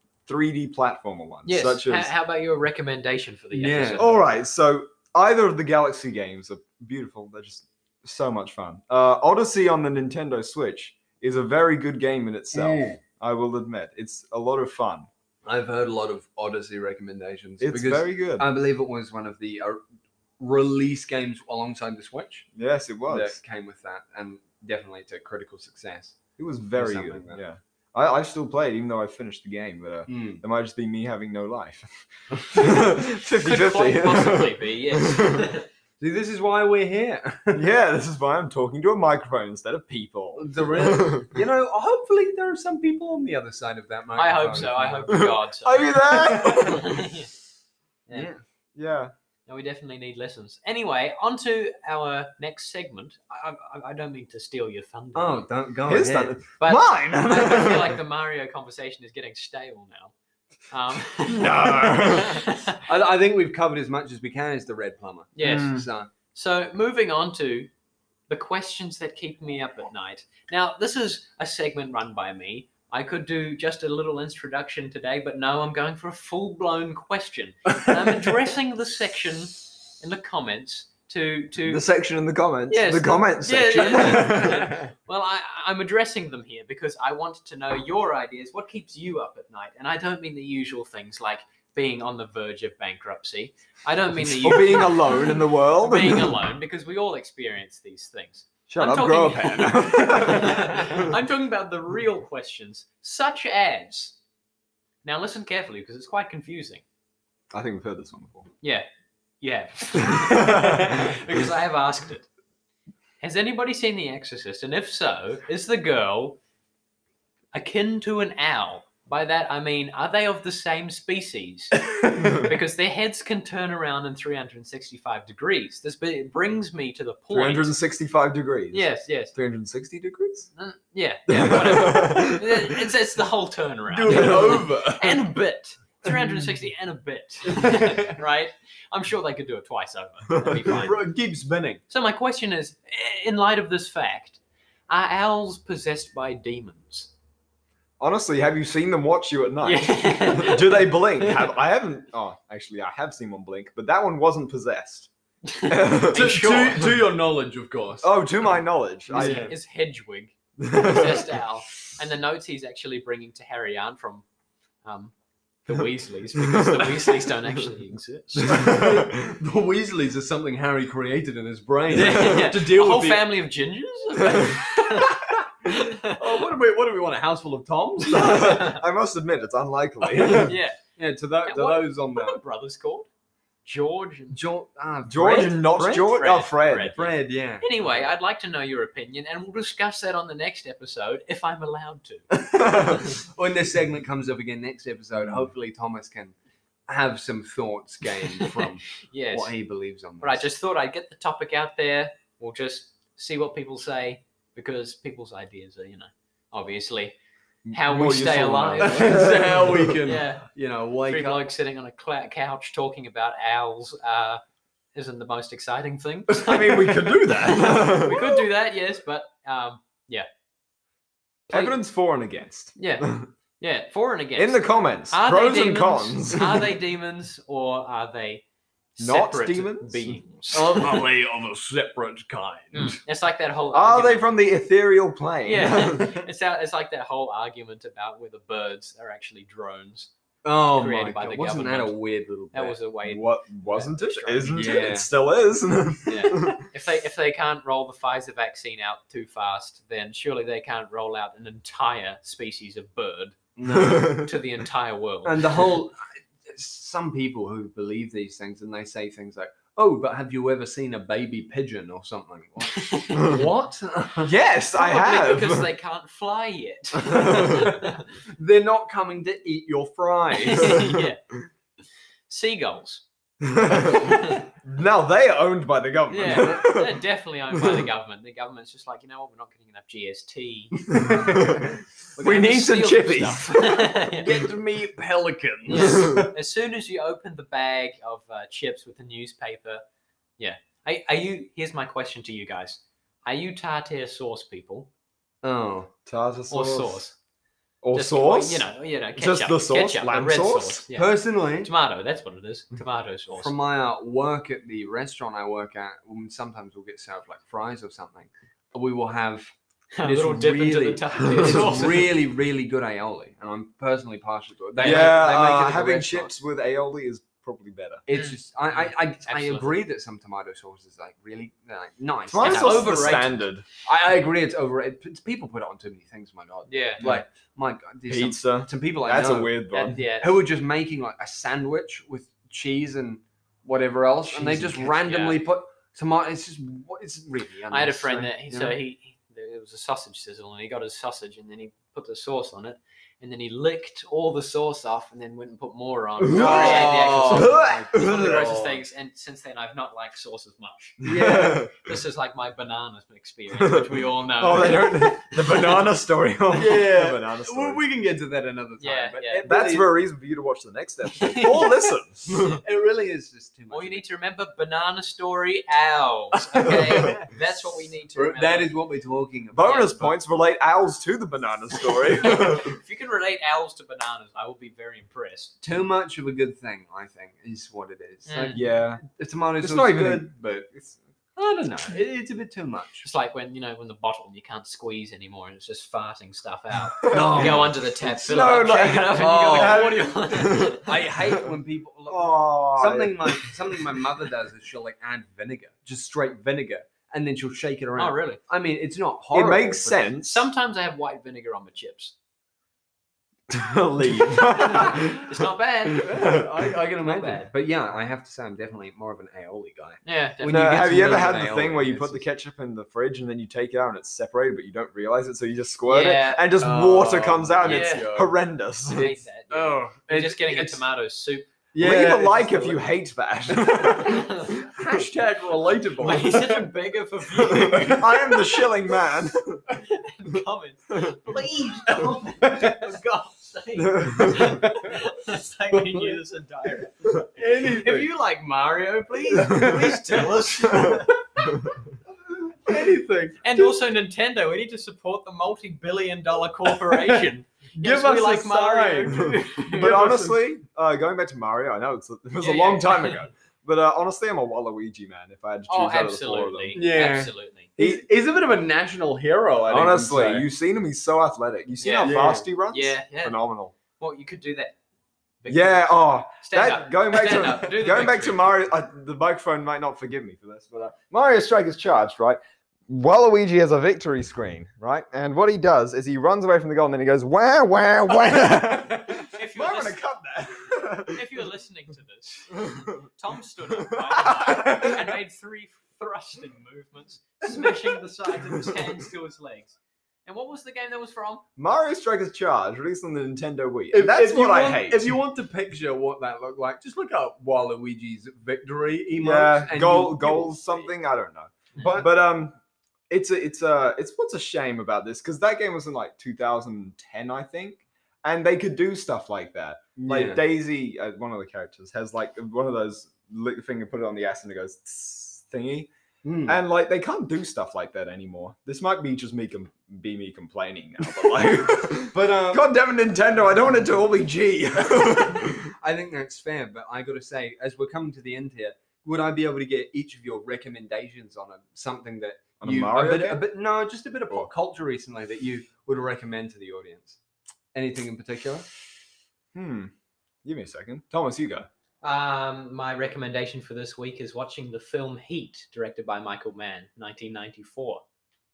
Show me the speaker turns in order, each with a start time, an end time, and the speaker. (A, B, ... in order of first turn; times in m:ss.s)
0:00.3-0:02.1 A
0:01.4-0:04.2 B
0:03.5-0:04.0 C
0:04.0-0:15.1 A
0:12.5-0:13.0 C
0:15.4-0:19.8 C
0:17.6-0:18.4 A
0:20.4-0:22.5 C
0:22.5-0:23.4 A
0:23.1-0:26.2 C
0:26.4-0:35.5 A
0:26.8-0:27.4 C
0:30.1-0:30.4 C
0:33.4-0:35.6 B
0:36.0-0:37.6 C
0:37.5-0:41.3 A
0:40.3-0:45.2 C
0:44.2-0:47.3 B
0:45.1-0:47.1 A
0:48.1-0:48.4 C
0:48.8-0:49.1 A
0:49.5-0:55.5 B
0:55.1-0:56.4 C
0:55.9-0:58.0 A
0:56.6-1:00.1 B
1:00.7-1:02.8 B
1:01.2-1:02.5 A
1:02.8-1:06.1 C
1:05.4-1:07.7 B
1:05.4-1:05.8 A
1:08.3-1:21.8 B
1:21.6-1:24.8 A
1:22.7-1:44.2 B
1:23.7-1:24.9 C
1:34.2-1:36.4 A
1:38.7-1:41.1 A
1:45.0-1:46.8 B
1:47.5-1:48.5 A
1:49.4-1:52.3 B
1:50.0-1:51.1 A
1:53.2-1:56.4 B
1:57.5-2:07.7 B
2:02.2-2:02.4 A
2:07.3-2:10.5 A
2:08.7-2:09.3 B
2:10.6-2:21.0 B
2:11.3-2:12.9 A
2:13.9-2:15.2 C
2:17.5-2:18.1 C
2:20.6-2:21.8 C
2:21.9-2:27.1 B
2:28.0-2:35.1 A
2:29.6-2:31.5 B
2:35.4-2:37.0 B
2:35.6-2:36.6 A
2:36.1-2:38.1 C
2:38.0-2:39.5 A
2:39.1-2:44.2 B
2:39.1-2:39.6 C
2:40.6-2:41.3 A
2:44.8-2:45.1 B
2:45.6-2:48.8 B
2:46.5-2:47.0 A
2:48.4-2:49.3 A
2:48.6-2:53.3 C
2:51.9-2:56.2 B
2:54.3-2:54.5 A
2:56.0-2:58.4 C
2:58.1-3:00.5 A
2:58.1-2:58.8 B
3:00.3-3:00.8 B
3:01.0-3:02.4 C
3:01.4-3:03.1 B
3:03.6-3:04.4 B
3:04.3-3:05.7 C
3:05.1-3:07.0 A
3:05.4-3:07.1 B
3:06.9-3:08.0 C
3:07.6-3:13.0 B
3:12.4-3:16.3 C
3:12.6-3:13.0 A
3:16.9-3:20.4 C
3:19.1-3:19.5 B
3:20.2-3:27.2 B
3:27.6-3:29.9 A
3:27.7-3:29.4 B
3:28.8-3:31.4 C
3:30.0-3:30.5 B
3:31.1-3:34.4 B
3:34.9-3:40.3 B
3:36.3-3:38.4 A
3:41.5-3:41.8 B
3:41.5-3:43.3 A
3:42.8-3:48.4 B
3:44.3-3:46.8 A
3:49.0-3:51.0 B
3:49.0-3:50.2 A
3:50.5-3:53.0 C
3:52.7-3:54.3 B
3:53.7-3:56.2 A
3:55.4-4:00.1 B
4:00.4-4:02.8 C
4:00.7-4:01.9 B
4:02.5-4:05.0 B
4:03.0-4:06.6 A
4:04.5-4:05.1 C
4:06.1-4:15.6 B
4:13.6-4:14.2 C
4:13.8-4:14.3 A
4:15.2-4:24.3 C
4:22.8-4:23.4 B
4:24.2-4:25.7 A
4:24.7-4:28.0 B
4:27.0-4:27.7 A
4:27.3-4:27.8 C
4:28.4-4:30.9 C
4:30.4-4:31.3 B
4:32.3-4:33.0 B
4:33.4-4:37.0 A
4:33.8-4:34.4 B
4:36.1-4:41.5 B
4:37.5-4:37.9 A
4:40.9-4:44.1 A
4:41.0-4:41.4 C
4:42.1-4:44.5 B
4:44.1-4:46.3 C
4:45.7-4:49.8 B
4:45.7-4:46.3 A
4:50.4-4:54.9 B
4:55.4-4:55.9 C
4:56.0-4:57.0 A
4:56.5-4:57.2 B
4:57.8-5:00.8 A
4:57.9-5:03.5 B
5:00.9-5:01.7 C
5:03.4-5:16.3 C
5:09.9-5:12.1 B
5:11.3-5:11.8 A
5:14.8-5:15.2 B
5:14.8-5:18.0 A
5:18.0-5:29.6 C
5:18.1-5:19.8 B
5:22.3-5:23.6 A
5:22.4-5:23.4 B
5:26.7-5:27.2 B
5:28.1-5:30.0 A
5:29.7-5:30.4 B
5:30.2-5:38.8 C
5:34.3-5:34.7 A
5:34.5-5:35.4 B
5:37.7-5:51.2 B
5:46.2-5:48.5 A
5:46.3-5:48.8 C
5:51.0-5:51.6 C
5:51.0-5:52.0 A
5:51.8-5:55.8 B
5:53.5-5:57.8 A
5:56.5-5:59.9 C
5:58.8-5:59.4 B
5:59.4-6:02.6 A
6:01.2-6:04.0 C
6:03.7-6:08.7 B
6:06.5-6:07.3 C
6:08.1-6:09.9 C
6:09.5-6:12.8 A
6:09.6-6:10.1 B
6:12.2-6:15.5 B
6:15.6-6:20.3 C
6:18.2-6:18.6 B
6:18.5-6:19.0 A
6:19.6-6:22.0 A
6:21.6-6:23.1 C
6:23.0-6:31.0 B
6:27.0-6:30.8 A
6:27.1-6:28.5 C
6:29.1-6:40.1 C
6:32.1-6:33.6 A
6:38.0-6:38.4 B
6:39.3-6:40.5 A
6:40.2-6:42.1 B
6:43.5-6:46.4 A
6:44.2-6:46.4 B
6:46.0-6:52.2 C
6:47.0-6:47.5 B
6:50.0-6:51.1 B
6:50.5-6:59.1 A
6:55.8-6:56.4 B
6:56.6-6:58.3 C
6:57.6-6:58.1 B
6:58.9-7:00.8 C
6:58.9-7:01.5 B
7:01.7-7:02.8 C
7:01.8-7:04.3 A
7:03.7-7:06.7 C
7:04.0-7:04.6 B
7:06.0-7:08.6 B
7:07.4-7:09.6 A
7:09.9-7:21.7 B
7:11.9-7:12.8 C
7:13.7-7:14.6 A
7:14.4-7:15.0 C
7:15.7-7:16.2 C
7:17.3-7:18.1 C
7:19.5-7:19.9 C
7:20.7-7:21.0 A
7:22.6-7:23.8 C
7:23.4-7:30.1 B
7:26.7-7:27.2 C
7:27.7-7:30.4 C
7:29.1-7:36.8 A
7:32.4-7:33.3 B
7:35.7-7:37.7 B
7:36.7-7:40.5 C
7:37.8-7:38.0 A
7:39.7-7:43.7 A
7:41.8-7:43.4 B
7:42.0-7:42.4 C
7:44.0-7:44.8 B
7:45.4-7:48.5 B
7:45.5-8:01.4 A
7:59.2-8:00.0 B
8:01.0-8:11.4 B
8:02.5-8:03.1 A
8:03.7-8:05.0 A
8:07.5-8:07.8 C
8:11.6-8:15.1 A
8:13.9-8:20.9 C
8:19.2-8:22.5 A
8:21.8-8:22.0 C
8:23.1-8:35.9 A
8:30.0-8:30.4 C
8:36.2-8:36.6 C
8:36.4-8:45.7 A
8:42.1-8:42.7 C
8:45.6-8:57.2 C
8:52.6-8:53.4 A
8:57.7-8:58.7 C
8:59.5-8:59.9 A
9:00.4-9:01.7 A
9:02.0-9:08.0 B